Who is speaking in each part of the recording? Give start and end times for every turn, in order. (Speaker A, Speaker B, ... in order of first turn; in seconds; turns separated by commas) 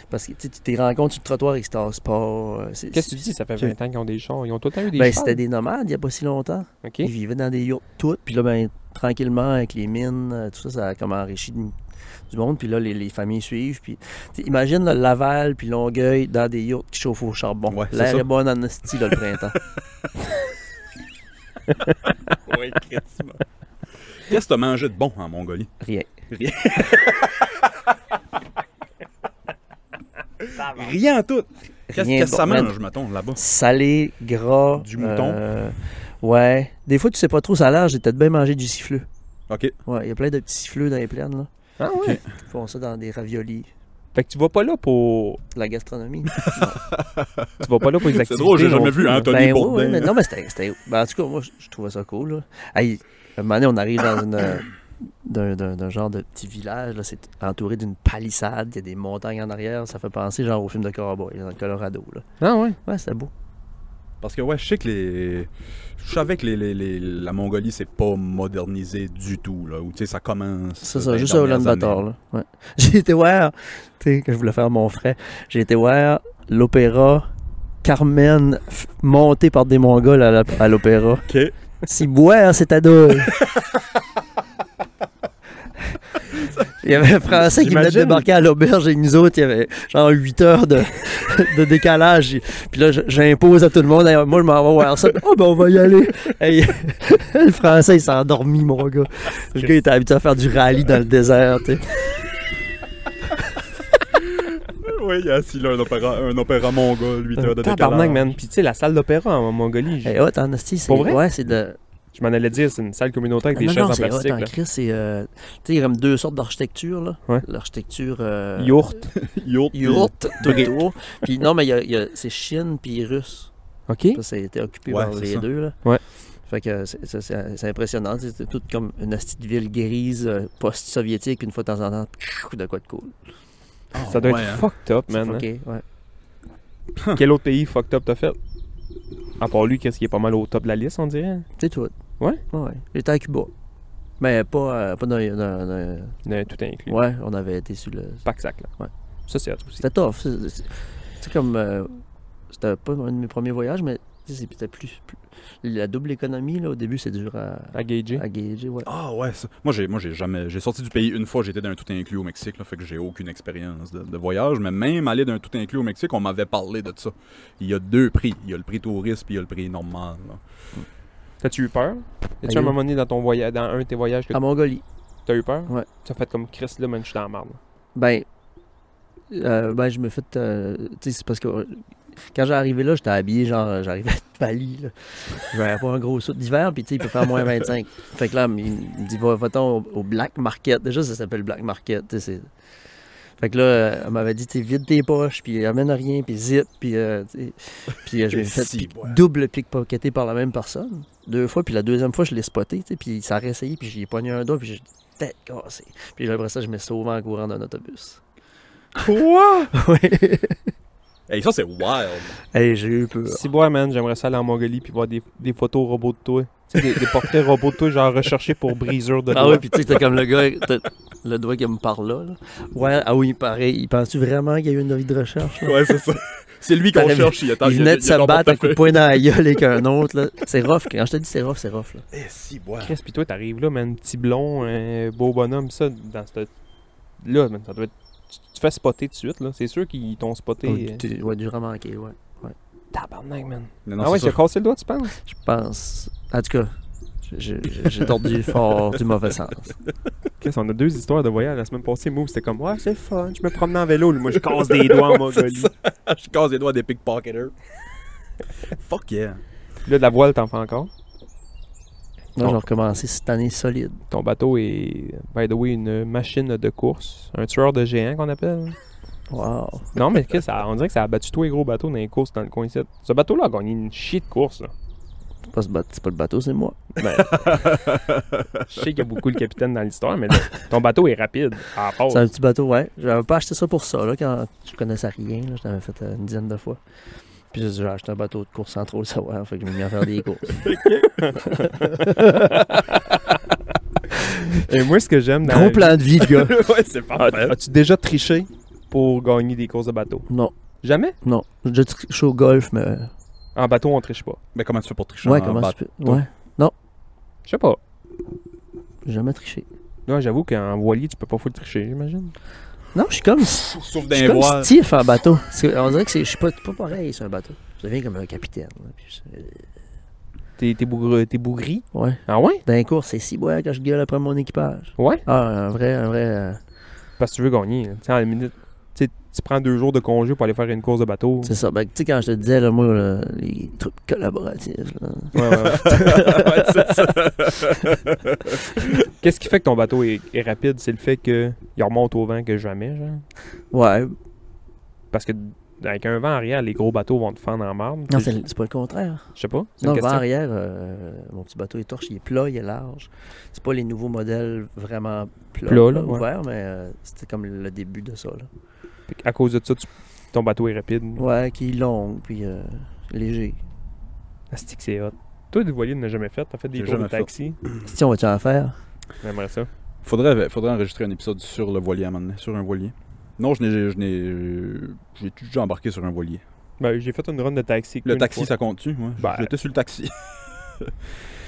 Speaker A: 0.1-3.3, Speaker B: 2.9-5.4, Speaker A: 4.9-11.7, Speaker B: 6.8-7.1, Speaker A: 12.3-19.6, Speaker C: 17.7-18.2, Speaker C: 22.4-23.4, Speaker C: 24.2-25.7, Speaker A: 25.8-26.1, Speaker C: 26.3-27.7, Speaker C: 30.4-33.4, Speaker A: 31.9-32.7, Speaker A: 33.3-39.0, Speaker C: 34.8-35.4, Speaker C: 39.5-39.7, Speaker A: 39.9-41.5, Speaker B: 41.8-42.2, Speaker A: 42.4-43.7, Speaker B: 44.1-45.4, Speaker A: 45.5-46.8, Speaker C: 46.4-50.1, Speaker B: 47.6-49.3, Speaker A: 49.2-62.2, Speaker B: 62.4-62.8, Speaker A: 62.8-63.3, Speaker C: 64.2-72.0, Speaker A: 70.8-77.3, Speaker A: 77.8-81.3, Speaker C: 81.3-81.5, Speaker A: 81.8-83.4, Speaker C: 83.4-83.8, Speaker A: 86.8-101.9, Speaker B: 87.3-88.2, Speaker C: 104.2-108.3, Speaker B: 107.4-110.2, Speaker A: 110.0-111.8, Speaker B: 110.9-111.2, Speaker B: 112.1-114.5, Speaker A: 113.5-118.9, Speaker B: 118.6-119.1, Speaker C: 119.1-120.8, Speaker A: 119.7-123.5, Speaker B: 123.9-124.2, Speaker A: 124.1-125.8, Speaker C: 124.9-125.4, Speaker A: 126.4-133.2, Speaker C: 133.9-134.7, Speaker B: 134.0-135.4, Speaker A: 135.1-135.8, Speaker C: 137.0-137.2, Speaker B: 137.1-138.4, Speaker B: 139.4-141.5, Speaker A: 141.6-141.9, Speaker A: 142.5-143.5, Speaker A: 144.2-146.2, Speaker B: 146.2-147.0, Speaker A: 146.9-148.2, Speaker B: 148.2-148.7, Speaker B: 149.3-149.8, Speaker A: 149.8-152.0, Speaker A: 152.5-158.9, Speaker B: 157.7-158.2, Speaker C: 158.8-170.4, Speaker B: 171.4-174.4, Speaker A: 172.4-172.8, Speaker A: 174.3-174.8, Speaker B: 175.2-177.6, Speaker A: 177.9-178.2, Speaker A: 179.3-192.5, Speaker A: 193.4-208.2, Speaker C: 198.2-199.2, Speaker C: 209.0-209.7, Speaker A: 209.7-210.7, Speaker C: 211.3-212.3, Speaker A: 212.5-213.4, Speaker B: 213.3-219.6, Speaker A: 219.3-225.8, Speaker C: 225.5-229.0, Speaker A: 226.9-232.0, Speaker C: 232.1-232.9, Speaker B: 232.8-236.5, Speaker B: 237.2-241.0, Speaker A: 240.6-242.5, Speaker B: 242.9-245.1, Speaker C: 243.8-244.4, Speaker A: 245.2-246.7, Speaker A: 247.2-249.7, Speaker B: 250.4-255.7, Speaker C: 254.3-257.5, Speaker C: 258.7-259.4, Speaker B: 259.8-260.9, Speaker A: 262.4-264.0, Speaker B: 264.1-268.8, Speaker A: 269.3-269.9, Speaker B: 269.9-274.7, Speaker A: 275.5-276.9, Speaker B: 277.0-277.7, Speaker C: 277.3-278.8, Speaker B: 278.6-282.3, Speaker A: 282.1-286.8, Speaker A: 287.5-290.6, Speaker B: 290.6-293.1, Speaker A: 291.4-292.8, Speaker A: 294.2-294.6, Speaker B: 294.2-300.2, Speaker A: 295.4-296.5, Speaker C: 296.5-297.6, Speaker B: 300.8-301.1, Speaker A: 301.2-303.1, Speaker B: 303.5-304.4, Speaker C: 304.5-306.2, Speaker A: 305.2-306.7, Speaker B: 307.4-307.8, Speaker A: 309.0-309.6, Speaker B: 310.1-312.3, Speaker A: 312.9-319.7, Speaker C: 313.6-314.7, Speaker B: 320.6-322.6, Speaker A: 321.9-326.6, Speaker B: 325.0-325.2, Speaker B: 327.2-331.5, Speaker A: 331.4-337.9, Speaker B: 335.3-336.4, Speaker C: 335.6-338.9, Speaker B: 339.1-343.2, Speaker A: 343.7-344.1, Speaker B: 345.1-348.3, Speaker A: 348.1-349.3, Speaker B: 349.4-350.2, Speaker A: 349.8-358.5, Speaker B: 355.7-356.2, Speaker B: 359.1-361.2, Speaker A: 361.2-363.6, Speaker B: 364.5-367.6, Speaker C: 366.7-367.3, Speaker A: 367.8-368.8, Speaker B: 369.2-369.7, Speaker C: 370.0-376.4, Speaker B: 376.8-378.5, Speaker C: 378.0-380.9, Speaker B: 379.2-379.5